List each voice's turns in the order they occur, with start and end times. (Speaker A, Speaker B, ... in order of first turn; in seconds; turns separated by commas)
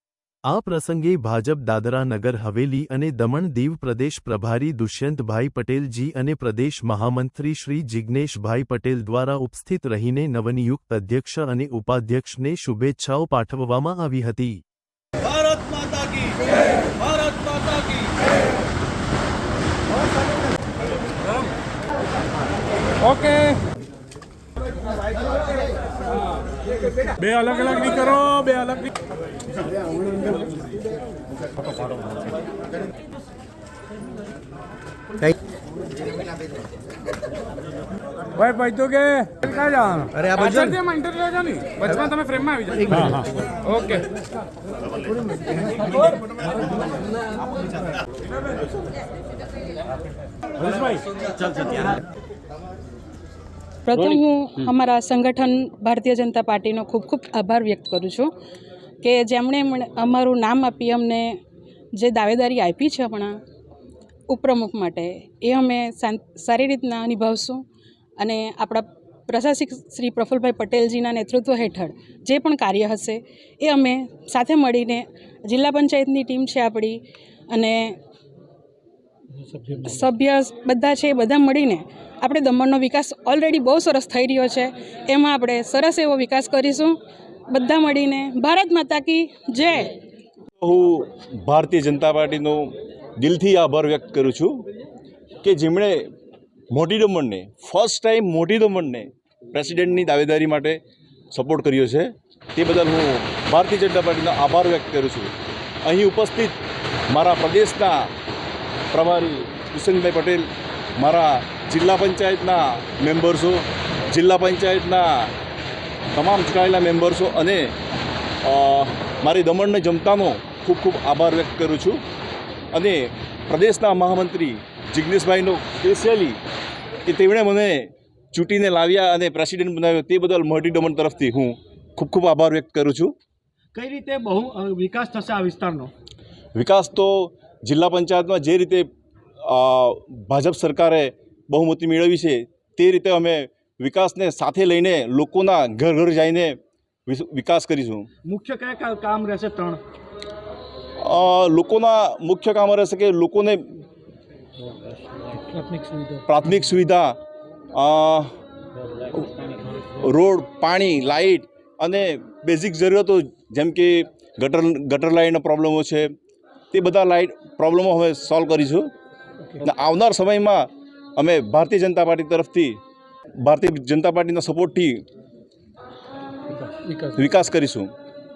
Speaker A: 0.5-14.6, Speaker B: 15.4-16.2, Speaker C: 23.1-23.6, Speaker C: 27.2-28.9, Speaker C: 38.4-44.0, Speaker D: 53.9-58.3, Speaker D: 59.0-61.4, Speaker D: 62.0-63.4, Speaker D: 64.3-67.6, Speaker D: 68.2-78.0, Speaker C: 79.3-79.9, Speaker D: 79.8-87.0, Speaker D: 87.5-90.0, Speaker B: 90.6-94.6, Speaker B: 95.4-96.0, Speaker B: 96.7-100.8, Speaker B: 101.3-106.6, Speaker B: 107.1-108.1, Speaker B: 108.9-115.3, Speaker B: 116.2-117.7, Speaker B: 118.4-122.0, Speaker B: 122.7-126.4, Speaker B: 127.1-133.1, Speaker E: 133.8-135.9, Speaker B: 136.6-138.9, Speaker B: 139.5-148.1, Speaker E: 148.2-149.8, Speaker B: 151.0-153.7, Speaker C: 155.3-156.2, Speaker B: 156.3-157.2, Speaker B: 157.8-158.3, Speaker B: 159.9-166.1, Speaker B: 166.7-168.9, Speaker B: 169.6-172.8, Speaker B: 173.4-175.0, Speaker C: 176.5-177.2, Speaker B: 177.2-177.9